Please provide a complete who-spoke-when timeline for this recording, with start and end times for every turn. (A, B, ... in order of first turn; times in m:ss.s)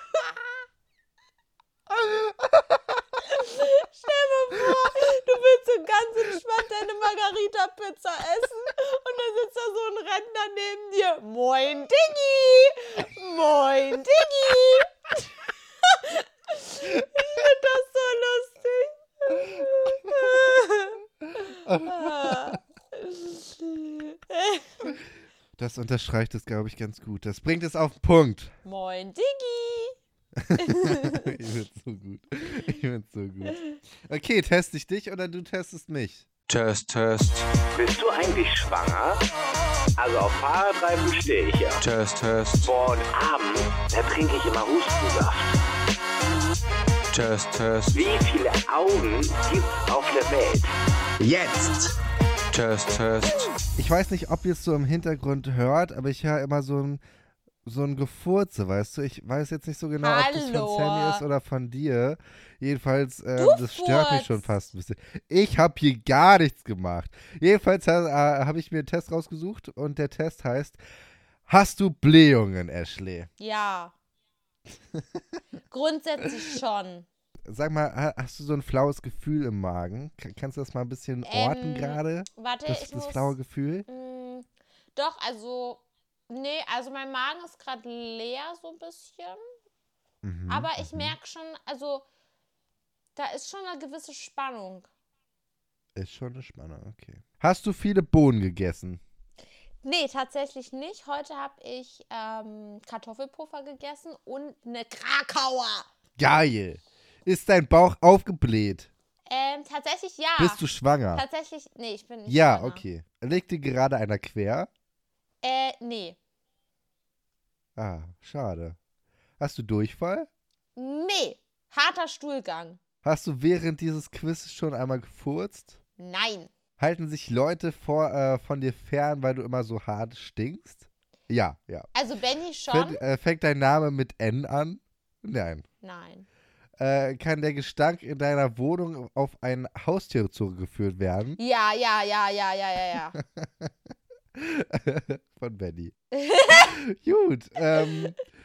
0:01.9-0:03.0 A
0:03.2-0:15.2 B
0:15.8-0:24.9 B
0:21.6-0:22.6 A
0:25.6-0:28.5 A
0:28.6-0:29.9 B
0:30.4-0:36.3 A
0:30.6-0:31.4 B
0:33.5-0:33.8 B
0:36.5-0:37.5 C
0:37.8-0:39.2 D
0:40.0-0:41.8 D
0:41.8-0:42.7 C
0:42.6-0:45.6 D
0:47.1-0:47.9 C
0:47.9-0:50.7 D
0:52.5-0:53.5 C
0:53.8-0:57.0 A
0:57.6-1:10.8 A
1:00.0-1:01.2 B
1:03.4-1:04.6 B
1:11.5-1:13.3 A
1:13.4-1:13.9 B
1:14.9-1:15.2 A
1:15.7-1:17.1 B
1:17.5-1:23.9 A
1:21.2-1:23.4 B
1:23.9-1:29.4 B
1:30.2-1:31.1 A
1:30.5-1:32.0 B
1:33.2-1:34.9 B
1:36.0-1:39.0 A
1:39.8-1:45.9 B
1:46.2-1:48.9 A
1:49.3-1:52.8 B
1:50.4-1:51.2 A
1:52.3-1:54.7 A
1:55.4-1:56.2 B
1:57.8-1:58.8 A
1:59.4-2:00.3 A
2:00.8-2:02.8 B
2:03.0-2:05.8 A
2:06.0-2:06.5 B
2:06.8-2:11.9 A
2:11.9-2:13.0 B
2:12.7-2:15.6 A
2:15.8-2:16.2 B
2:16.8-2:21.4 A
2:21.4-2:23.2 B
2:23.2-2:23.7 A
2:24.4-2:25.9 A
2:26.1-2:26.8 B
2:26.5-2:28.2 A
2:27.7-2:28.1 B